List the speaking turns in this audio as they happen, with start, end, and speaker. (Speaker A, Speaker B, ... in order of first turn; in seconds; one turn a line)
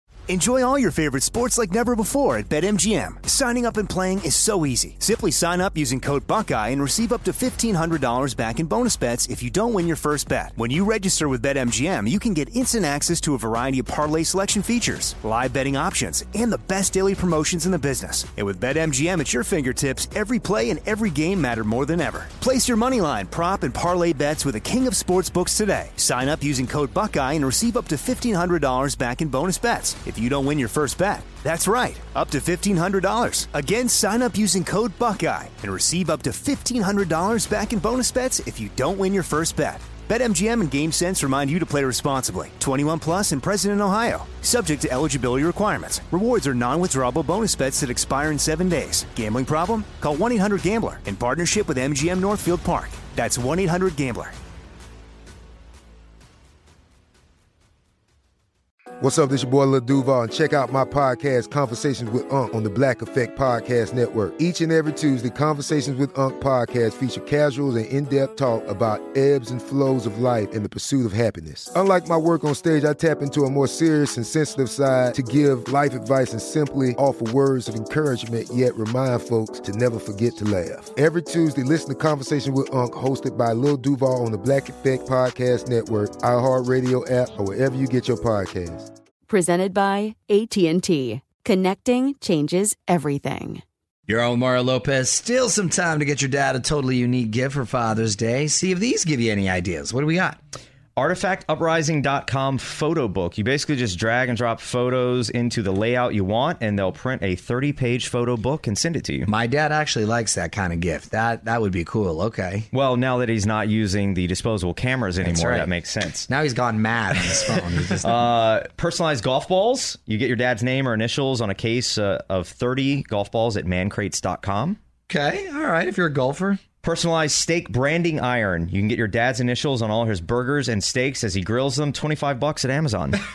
Speaker A: 0.3-54.4
Speaker B: 59.0-88.9
Speaker C: 89.3-93.6
Speaker D: 94.1-100.4
Speaker E: 101.0-109.3
Speaker D: 109.3-112.7
Speaker E: 112.7-116.3
Speaker D: 115.2-115.7
Speaker D: 116.3-118.2
Speaker E: 118.0-124.8
Speaker D: 125.1-126.6
Speaker E: 126.8-133.2